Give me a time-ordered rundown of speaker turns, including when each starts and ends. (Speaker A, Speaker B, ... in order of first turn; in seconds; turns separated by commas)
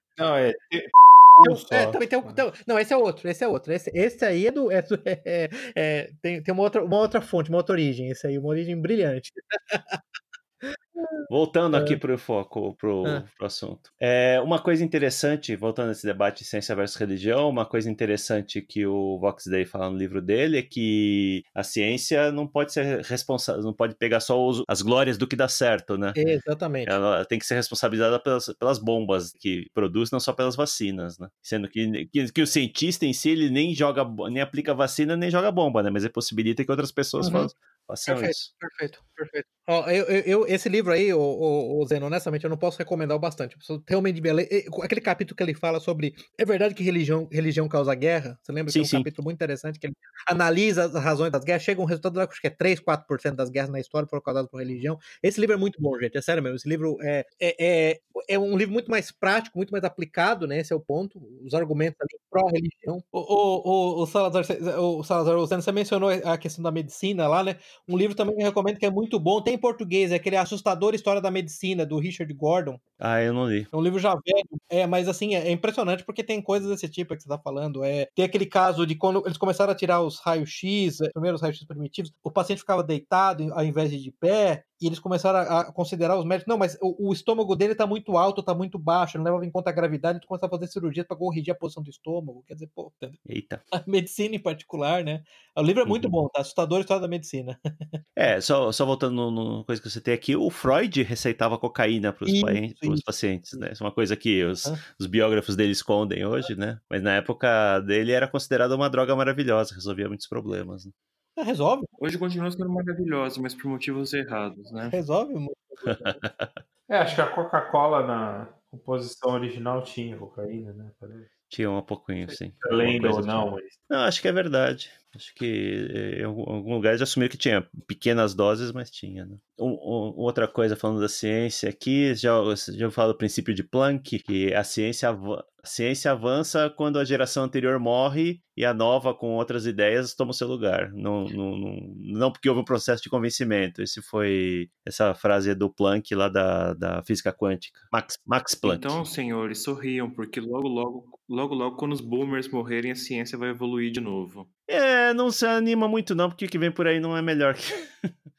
Speaker A: 0.2-2.4, Speaker B: 1.4-10.0, Speaker B: 10.6-11.2, Speaker C: 11.3-26.2, Speaker B: 11.7-12.0, Speaker B: 26.1-27.0, Speaker C: 26.9-38.5, Speaker B: 37.2-37.5, Speaker B: 38.1-72.8, Speaker C: 48.7-49.1, Speaker C: 73.0-73.7, Speaker B: 73.7-93.2, Speaker C: 93.3-93.6, Speaker B: 93.7-97.6, Speaker C: 95.9-96.1, Speaker C: 98.2-110.9, Speaker B: 102.3-103.6, Speaker B: 111.4-111.9, Speaker D: 112.0-115.0, Speaker B: 114.9-116.2, Speaker C: 115.8-116.6, Speaker A: 116.9-121.3, Speaker C: 121.5-149.0, Speaker A: 122.3-123.7, Speaker D: 148.6-154.5, Speaker C: 154.7-158.1